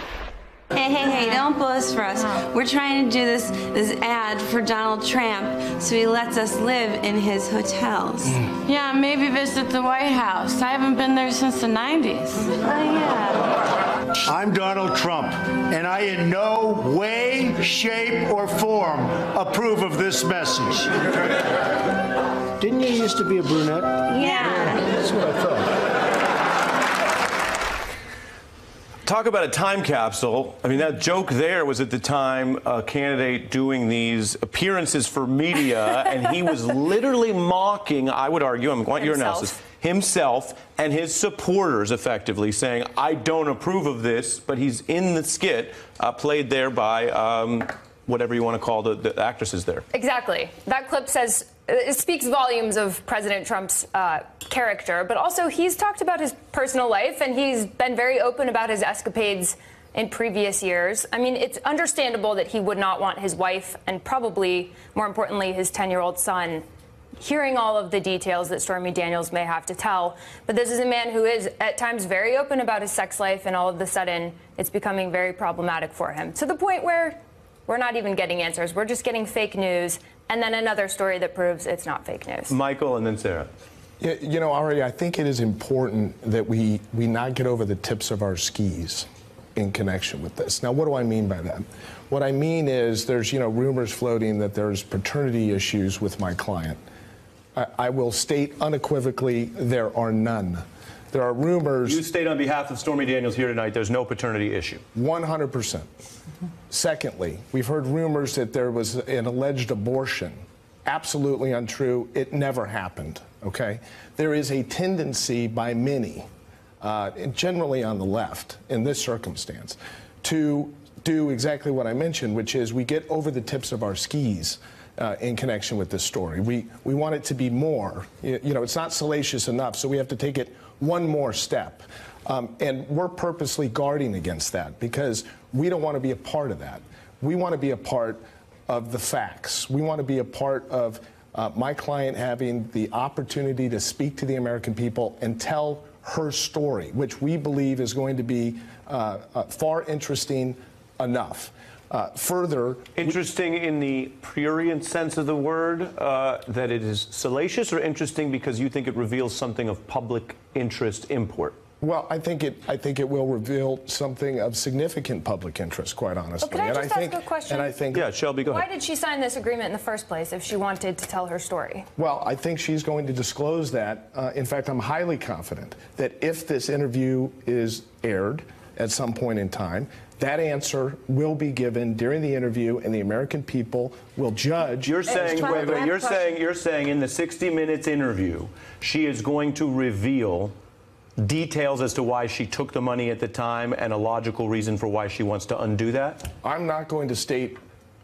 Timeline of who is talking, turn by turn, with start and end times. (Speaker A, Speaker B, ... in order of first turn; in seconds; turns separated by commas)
Speaker A: 0.7-8.4, Speaker B: 8.7-12.6, Speaker A: 12.6-13.4, Speaker C: 14.2-21.3, Speaker C: 22.6-25.7, Speaker A: 24.1-24.9, Speaker D: 29.1-49.9, Speaker E: 39.0-39.6, Speaker E: 49.9-66.6, Speaker E: 67.2-82.6, Speaker D: 82.5-83.5, Speaker F: 84.0-96.8, Speaker F: 97.5-102.0, Speaker D: 101.8-104.8, Speaker F: 105.0-105.9, Speaker F: 106.7-116.3, Speaker F: 116.8-153.2, Speaker D: 153.0-161.6, Speaker F: 161.8-168.1, Speaker E: 166.4-167.7, Speaker D: 167.9-168.7, Speaker E: 168.4-171.9, Speaker F: 172.0-185.9, Speaker D: 184.8-190.5, Speaker D: 191.2-196.3, Speaker F: 196.4-197.6